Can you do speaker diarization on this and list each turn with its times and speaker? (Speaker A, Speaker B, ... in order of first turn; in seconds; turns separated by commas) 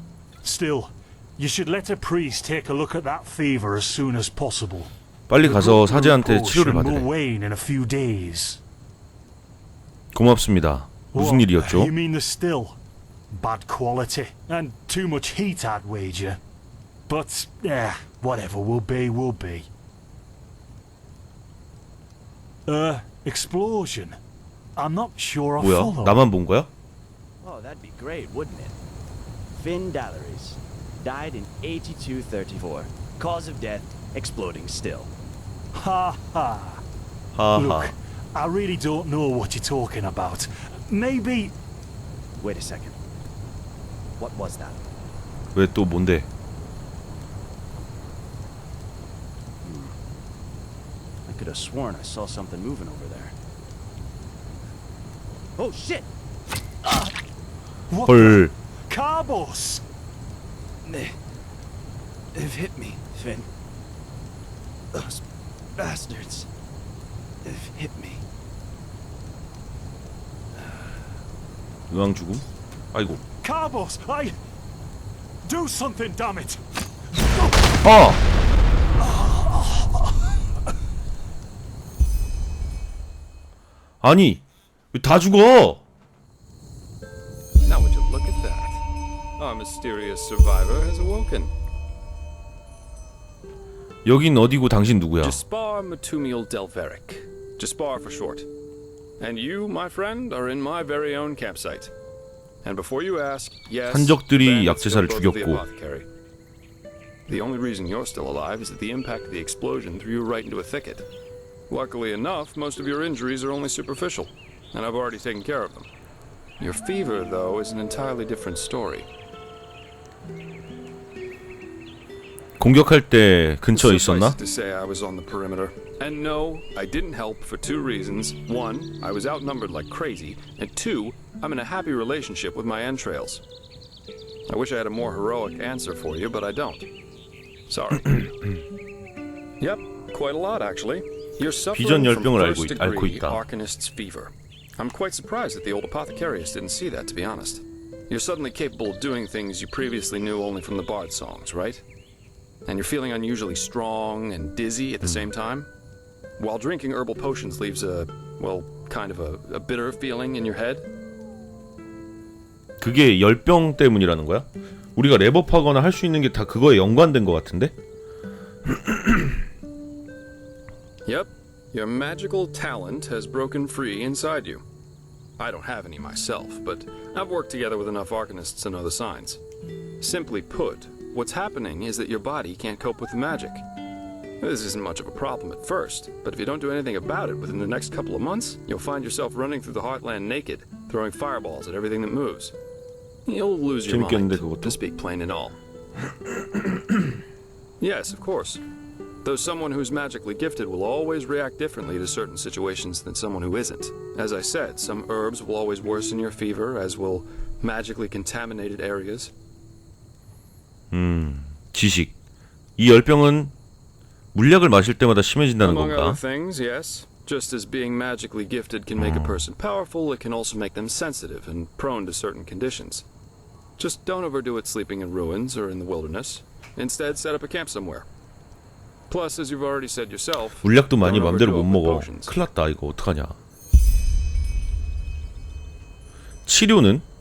Speaker A: 0.4-8.6, Speaker B: 5.3-7.1, Speaker B: 10.1-11.9, Speaker A: 11.1-12.8, Speaker A: 13.3-16.4, Speaker A: 17.1-19.7, Speaker A: 22.7-24.2, Speaker A: 24.8-26.3, Speaker B: 25.6-26.7, Speaker C: 27.4-28.8, Speaker C: 29.5-35.1, Speaker A: 35.8-36.8, Speaker B: 37.3-38.0, Speaker A: 37.5-41.5, Speaker C: 42.4-43.0, Speaker C: 44.2-44.9, Speaker B: 45.5-46.3, Speaker C: 49.6-50.0, Speaker C: 51.3-53.4, Speaker C: 55.6-56.1, Speaker A: 57.9-59.8, Speaker B: 58.0-58.5, Speaker C: 60.9-61.2, Speaker C: 62.3-63.5, Speaker C: 64.9-65.2, Speaker C: 65.8-66.5, Speaker C: 67.4-68.2, Speaker C: 70.6-71.0, Speaker B: 71.9-73.2, Speaker A: 73.4-74.4, Speaker A: 75.4-76.6, Speaker B: 77.8-78.2, Speaker A: 79.0-80.3, Speaker B: 84.0-85.8, Speaker D: 87.6-88.8, Speaker D: 89.4-91.5, Speaker B: 94.0-95.4, Speaker D: 95.2-98.5, Speaker D: 99.2-101.9, Speaker D: 102.6-106.1, Speaker B: 103.9-105.7, Speaker D: 107.3-111.1, Speaker D: 111.7-115.9, Speaker D: 116.6-119.1, Speaker B: 122.6-124.4, Speaker D: 123.7-133.4, Speaker D: 134.5-136.9, Speaker D: 137.7-138.3, Speaker D: 139.6-151.8, Speaker B: 141.7-143.4, Speaker D: 152.7-155.7, Speaker B: 155.0-155.3, Speaker D: 156.4-160.9, Speaker B: 162.8-167.7, Speaker B: 168.7-169.3, Speaker D: 171.1-174.6, Speaker D: 175.4-179.4, Speaker D: 180.0-183.6, Speaker D: 184.4-192.5, Speaker D: 193.3-195.6, Speaker B: 193.9-194.8, Speaker D: 197.8-198.6, Speaker D: 199.2-209.3, Speaker B: 210.9-212.2, Speaker B: 212.8-213.5, Speaker B: 214.3-216.2, Speaker D: 215.6-223.1, Speaker B: 219.0-219.5, Speaker D: 223.8-228.1, Speaker D: 229.1-232.4, Speaker B: 230.6-233.4, Speaker B: 236.5-237.1